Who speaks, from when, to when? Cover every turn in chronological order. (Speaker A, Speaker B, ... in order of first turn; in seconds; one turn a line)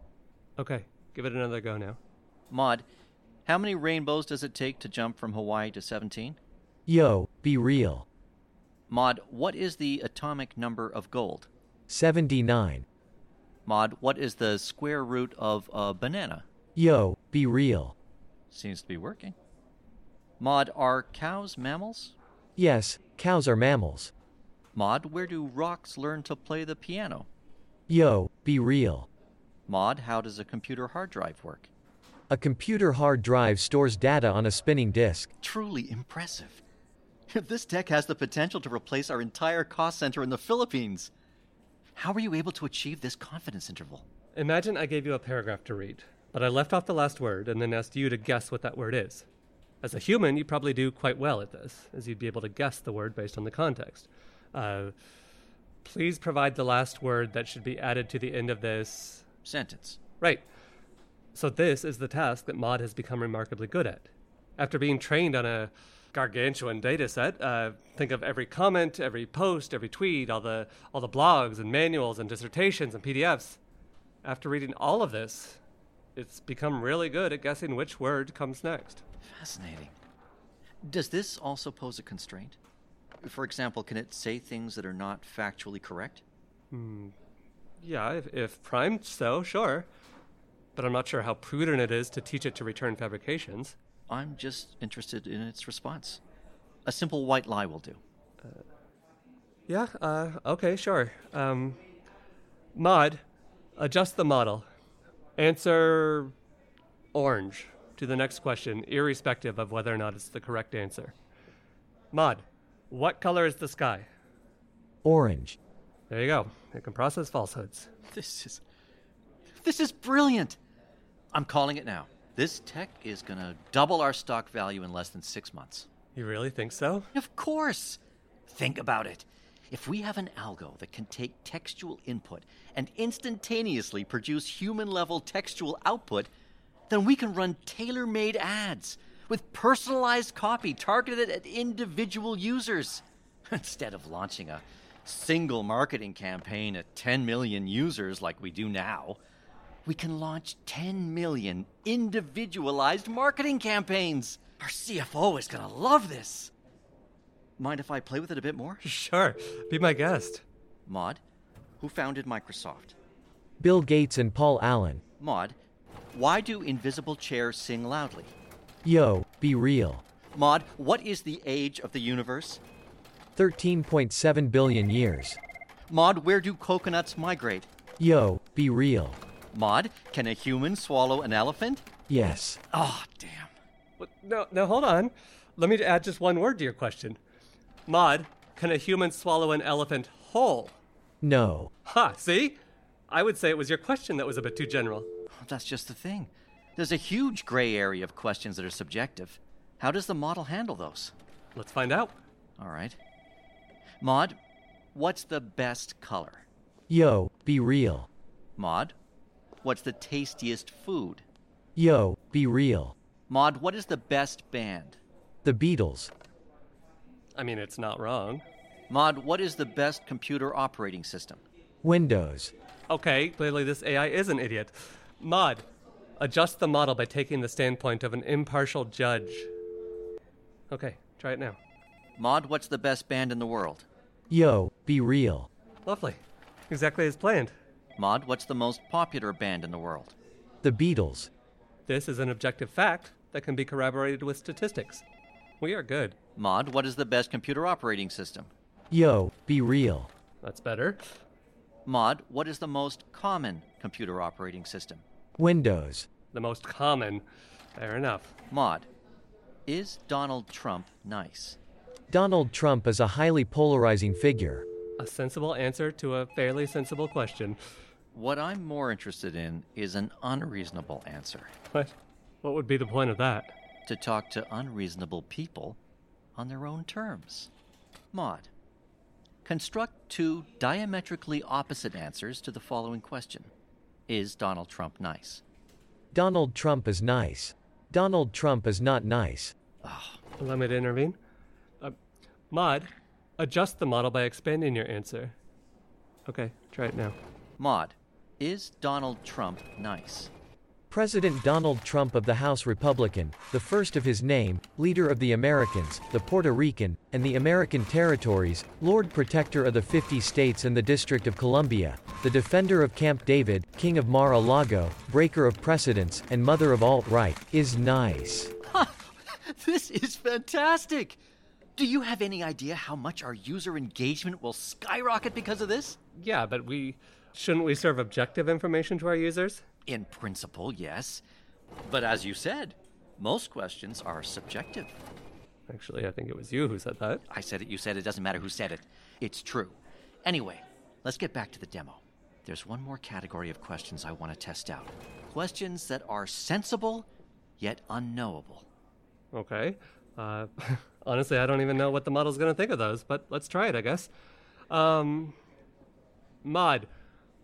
Speaker A: 0.6-2.0
Speaker B: 2.5-2.9
Speaker B: 3.5-6.4
Speaker C: 6.9-8.1
Speaker B: 8.9-11.5
Speaker C: 11.9-12.8
Speaker B: 13.7-16.4
Speaker C: 16.7-17.9
Speaker B: 18.5-19.3
Speaker B: 20.4-22.1
Speaker C: 22.6-24.1
Speaker B: 24.7-27.3
Speaker C: 27.9-29.1
Speaker B: 29.7-31.7
Speaker C: 32.3-35.3
Speaker B: 35.4-36.6
Speaker B: 37.3-41.1
Speaker B: 41.9-44.0
Speaker A: 44.3-49.3
Speaker A: 49.8-55.0
Speaker A: 55.8-59.2
Speaker B: 59.4-60.0
Speaker A: 60.2-60.5
Speaker A: 61.3-73.6
Speaker A: 74.2-75.6
Speaker A: 76.2-79.0
Speaker B: 79.2-79.9
Speaker B: 80.8-82.6
Speaker B: 83.2-86.2
Speaker A: 86.7-87.1
Speaker A: 87.8-89.9
Speaker A: 90.8-93.8
Speaker B: 94.1-96.2
Speaker B: 96.8-98.0
Speaker A: 99.7-101.8
Speaker A: 102.7-103.2
Speaker A: 103.8-104.7
Speaker A: 105.4-106.3
Speaker A: 107.1-111.1
Speaker A: 112.1-114.1
Speaker C: 115.0-115.6
Speaker A: 116.1-117.9
Speaker B: 118.1-118.6
Speaker B: 119.6-120.6
Speaker B: 121.3-125.9
Speaker A: 126.1-127.1
Speaker B: 127.1-136.3
Speaker B: 136.9-149.2
Speaker B: 149.8-156.5
Speaker B: 157.6-158.8
Speaker A: 158.8-160.4
Speaker B: 160.8-161.2
Speaker B: 161.8-162.9
Speaker C: 163.6-165.0
Speaker B: 165.2-165.6
Speaker B: 166.1-168.3
Speaker C: 168.8-170.0
Speaker B: 170.3-172.6
Speaker C: 173.3-175.4
Speaker B: 175.9-177.7
Speaker C: 178.0-179.2
Speaker B: 179.5-181.8
Speaker C: 182.1-182.6
Speaker B: 182.7-183.5
Speaker A: 184.0-187.2
Speaker A: 187.9-190.8
Speaker C: 191.2-191.7
Speaker A: 191.8-195.1
Speaker B: 195.3-201.1
Speaker A: 201.5-202.2
Speaker B: 202.6-203.0
Speaker B: 204.0-204.3
Speaker B: 204.9-206.4
Speaker C: 206.9-208.1
Speaker B: 208.6-208.9
Speaker B: 209.6-211.2
Speaker C: 211.8-212.9
Speaker B: 213.3-215.0
Speaker C: 215.4-216.1
Speaker A: 217.3-218.4
Speaker B: 218.9-221.4
Speaker C: 221.8-222.5
Speaker A: 222.9-225.6
Speaker A: 226.2-229.5
Speaker A: 230.7-231.6
Speaker B: 232.2-233.8
Speaker C: 234.3-235.5
Speaker A: 235.8-237.5
Speaker B: 238.0-240.1
Speaker C: 240.6-241.3
Speaker A: 241.8-245.0
Speaker A: 245.6-246.2
Speaker B: 246.3-248.5
Speaker C: 248.9-250.1
Speaker A: 250.4-251.2
Speaker B: 251.8-255.0
Speaker C: 255.4-256.1
Speaker A: 256.3-257.2
Speaker A: 257.8-258.3
Speaker B: 258.5-258.9
Speaker B: 259.7-261.6
Speaker C: 262.1-264.6
Speaker A: 265.0-267.6
Speaker B: 268.1-271.5
Speaker A: 271.7-273.5
Speaker B: 273.9-275.8
Speaker B: 276.4-277.5
Speaker B: 278.1-278.5
Speaker B: 279.4-283.5
Speaker B: 284.1-285.4
Speaker C: 286.1-289.5
Speaker B: 289.8-290.2
Speaker A: 290.4-291.2
Speaker A: 292.5-295.4
Speaker A: 296.2-297.2
Speaker B: 297.6-300.3
Speaker C: 300.9-318.5
Speaker B: 318.6-321.2
Speaker B: 321.8-326.0
Speaker A: 326.1-329.6
Speaker B: 329.9-331.2
Speaker B: 331.8-335.0
Speaker A: 335.7-337.2
Speaker B: 337.3-347.1
Speaker B: 347.6-348.7
Speaker A: 349.3-354.1
Speaker A: 354.7-355.4
Speaker A: 356.4-356.9